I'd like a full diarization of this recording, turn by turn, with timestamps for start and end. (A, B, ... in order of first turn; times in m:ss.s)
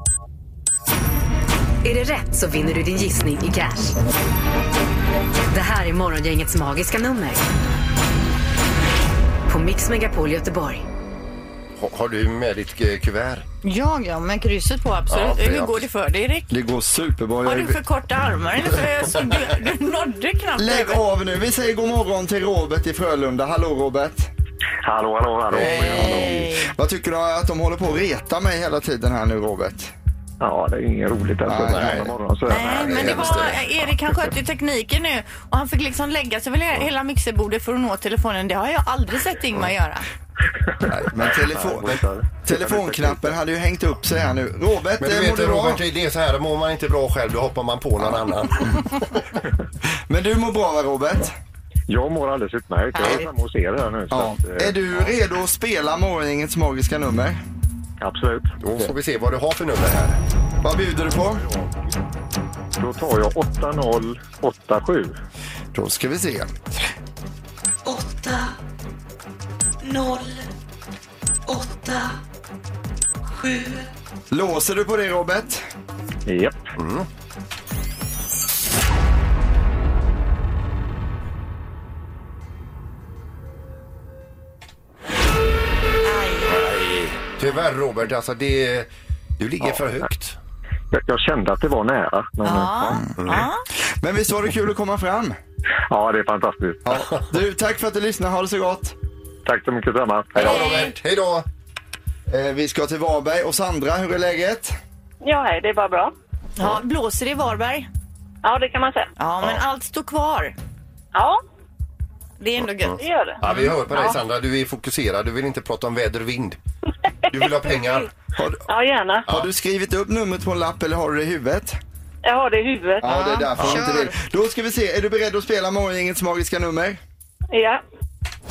0:01.8-0:04.0 A
0:05.5-0:07.4 A
0:09.5-0:10.8 A
0:11.8-0:13.4 B
0:13.6-0:16.5 C
0:15.1-0:15.8 B
0:16.5-0:17.8 D
0:17.4-0:21.0 C
0:20.6-0:24.3 D
0:24.8-0:26.4 E
0:25.5-0:29.9 D
0:25.7-0:26.7 C
0:30.4-0:33.3 E
0:31.4-0:32.1 D
0:31.7-0:32.1 B
0:32.5-0:40.0 C
0:32.6-0:33.7 B
0:32.9-0:33.5 D
0:40.7-0:43.3 E
0:40.9-0:45.8 D
0:45.0-0:49.3 B
0:50.1-0:51.4 D
0:51.9-0:55.0 E
0:52.9-0:53.2 C
0:54.1-0:57.4 D
0:58.0-0:58.5 E
0:58.6-1:00.2 B
1:00.6-1:01.4 D
1:02.8-1:05.1 E
1:05.7-1:06.5 D
1:07.8-1:08.6 F
1:09.8-1:10.5 F
1:11.5-1:12.2 F
1:13.4-1:13.9 F
1:14.3-1:15.6 D
1:16.3-1:16.6 E
1:16.8-1:17.1 B
1:26.0-1:26.6 C
1:26.5-1:30.4 B
1:30.9-1:33.0 E
1:32.4-1:33.6 C
1:32.8-1:33.1 D
1:33.2-1:33.4 B
1:34.0-1:35.4 D
1:35.9-1:37.0 E
1:36.8-1:38.9 D
1:39.4-1:40.7 E
1:40.3-1:41.4 B
1:40.4-1:40.9 C
1:42.3-1:44.8 D
1:45.2-1:46.1 G
1:46.6-1:47.9 C
1:48.4-1:49.1 G
1:49.2-1:50.5 C
1:51.1-1:51.4 G
1:52.4-1:54.2 C
1:52.8-1:56.6 B
1:53.0-1:53.4 G
1:57.3-1:58.1 B
1:58.3-1:58.6 D
1:58.7-1:59.2 G
1:59.2-2:01.8 D
2:02.2-2:03.1 G
2:03.0-2:07.0 D
2:03.0-2:04.2 C
2:07.5-2:07.8 G